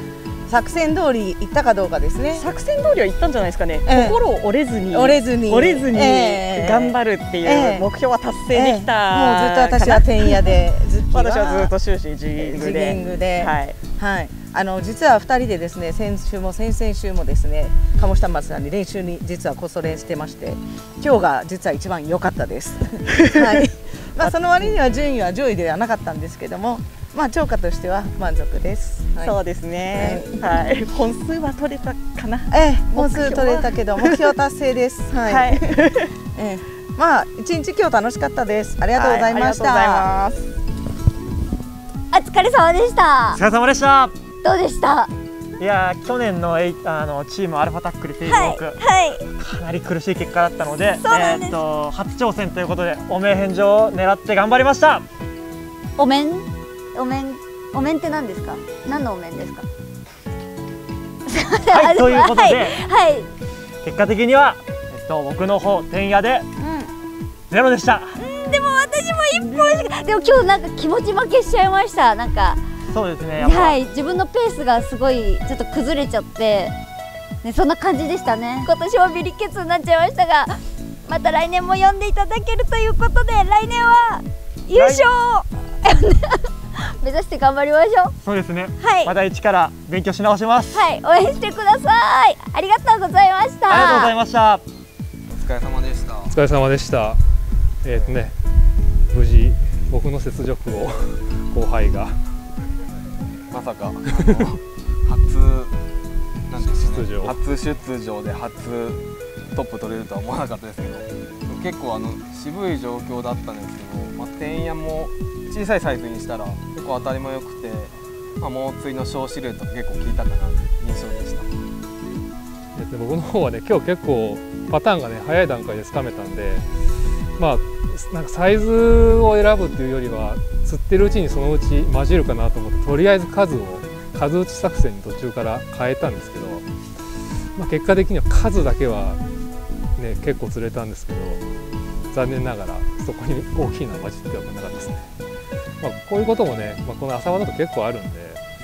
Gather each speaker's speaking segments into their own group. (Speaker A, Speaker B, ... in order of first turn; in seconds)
Speaker A: 0.5-2.5, 3.9-4.2, 4.9-7.9, 8.5-11.7, 12.3-22.8, 23.3-29.4, 29.9-30.3, 32.5-35.6, 36.4-40.2
Speaker B: 2.4-10.5, 11.1-13.8, 29.2-34.2, 35.3-36.1, 39.0-40.4
Speaker C: 42.1-43.4, 44.4-45.1, 48.2-49.3, 51.0-51.6, 56.0-59.7, 61.3-63.3, 66.6-66.9, 68.2-72.6, 73.4-76.7, 77.4-86.4, 87.0-88.2, 88.8-89.2, 90.7-94.2
Speaker D: 43.4-44.1, 45.6-48.8, 49.4-55.0, 61.7-62.7, 63.8-66.5, 67.5-68.2, 72.9-73.8, 84.8-85.1, 88.2-90.8, 93.7-94.6
Speaker E: 95.3-96.3, 103.5-105.7, 106.5-109.0, 109.5-121.5
Speaker F: 96.3-97.2, 97.8-98.3, 99.1-102.2, 104.2-104.5, 106.6-107.4, 122.8-126.7, 127.4-136.7, 137.6-139.2, 140.0-141.4, 142.1-145.1, 145.8-148.4